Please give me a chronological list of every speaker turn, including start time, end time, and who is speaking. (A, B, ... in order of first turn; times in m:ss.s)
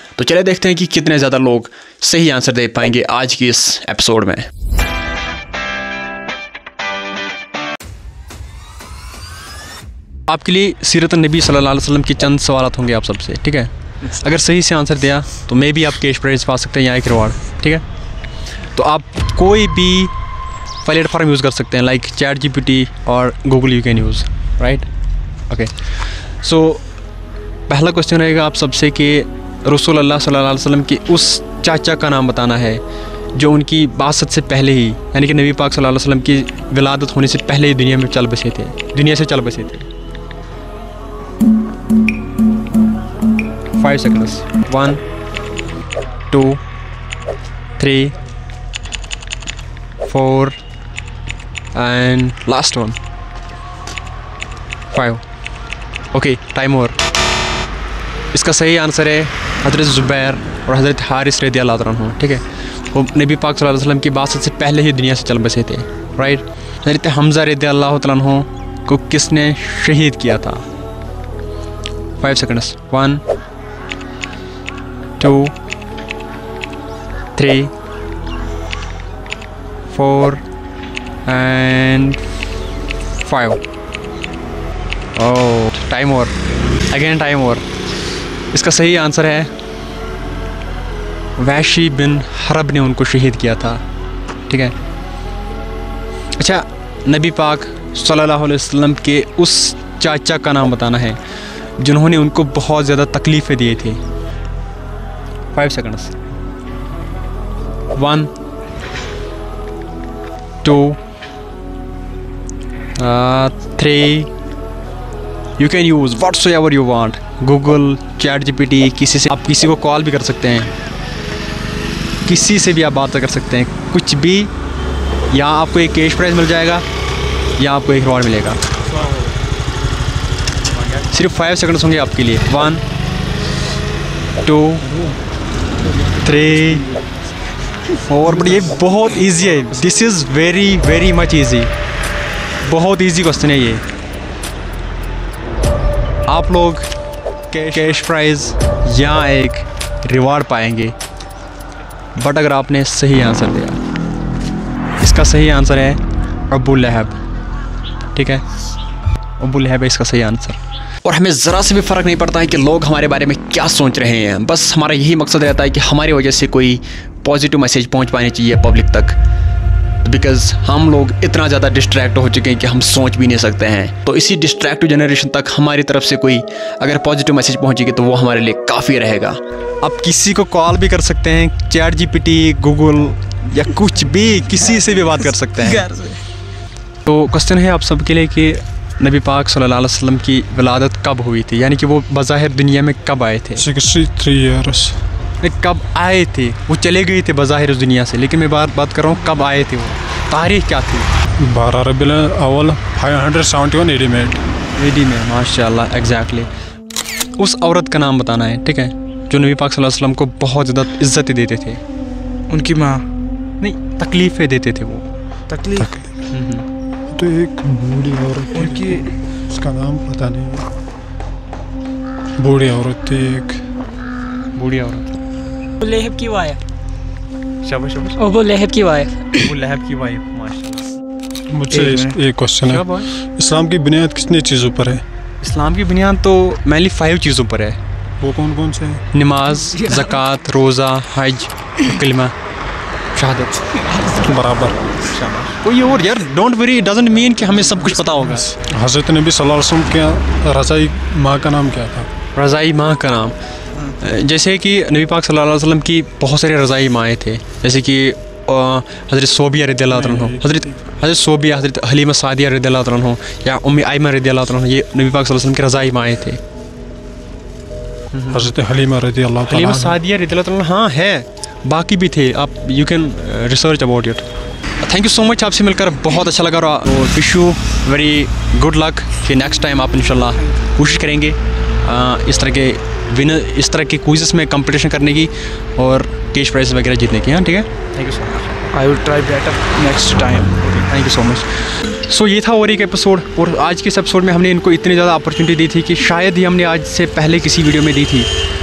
0:00.2-0:04.5 A
0:10.3-0:17.8 A
0:18.7-0:20.1 A
0:20.8-0:24.9 A
0:25.5-0:26.8 A
0:27.7-0:32.8 A
0:33.4-0:39.9 A
0:43.7-0:45.0 A
0:46.3-0:46.6 A
0:47.8-0:48.2 A
0:50.0-0:50.6 A
0:51.7-0:53.0 A
0:54.9-0:55.2 A
0:56.1-0:57.0 A
0:58.3-1:10.6 A
1:12.2-1:13.2 A
1:15.2-1:15.5 A
1:17.4-1:17.7 A
1:19.9-1:20.4 A
1:21.3-1:22.2 A
1:23.2-1:23.6 A
1:25.2-1:26.3 A
1:26.9-1:27.6 A
1:28.5-1:29.5 A
1:31.4-1:33.8 A
1:34.5-1:34.8 A
1:36.4-1:41.2 A
1:41.8-1:44.0 A
1:45.5-1:46.1 A
1:47.9-1:48.3 A
1:50.6-1:51.0 A
1:53.0-1:54.3 A
1:55.6-2:00.7 A
2:02.2-2:04.5 A
2:05.3-2:06.8 A
2:07.6-2:08.6 A
2:11.0-2:12.8 A
2:14.4-2:14.9 A
2:16.2-2:16.8 A
2:18.0-2:21.7 A
2:18.3-2:18.7 B
2:22.6-2:23.8 A
2:26.3-2:26.9 A
2:27.5-2:31.0 A
2:32.2-2:33.8 A
2:35.0-2:36.0 A
2:36.5-2:37.2 A
2:38.2-2:38.4 A
2:39.4-2:49.2 A
2:50.0-3:05.9 A
3:07.0-3:13.7 A
3:13.6-3:15.0 B
3:15.4-3:21.1 A
3:21.4-3:24.4 B
3:24.8-3:26.5 A
3:27.4-3:31.8 A
3:32.5-3:33.0 C
3:33.6-3:35.0 A
3:35.5-3:35.9 C
3:35.8-3:36.1 B
3:36.3-3:36.7 A
3:37.1-3:40.7 B
3:38.6-3:39.1 C
3:42.4-3:43.6 B
3:44.6-3:45.1 A
3:45.8-3:46.6 D
3:47.6-3:48.3 A
3:48.2-3:49.3 D
3:49.3-3:50.9 A
3:51.5-3:52.8 B
3:51.7-3:52.2 C
3:52.6-3:53.1 A
3:53.4-3:55.0 B
3:55.4-3:57.8 A
3:58.2-3:59.0 B
3:59.1-4:02.3 A
4:03.1-4:03.8 A
4:04.2-4:04.8 B
4:05.0-4:05.5 C
4:05.5-4:08.5 A
4:08.5-4:12.1 B
4:12.4-4:13.4 A
4:14.0-4:26.4 A
4:19.9-4:20.7 B
4:28.1-4:28.5 A
4:28.3-4:30.0 B
4:29.5-4:34.2 A
4:34.8-4:48.7 A
4:48.7-4:50.6 C
4:50.6-4:58.3 A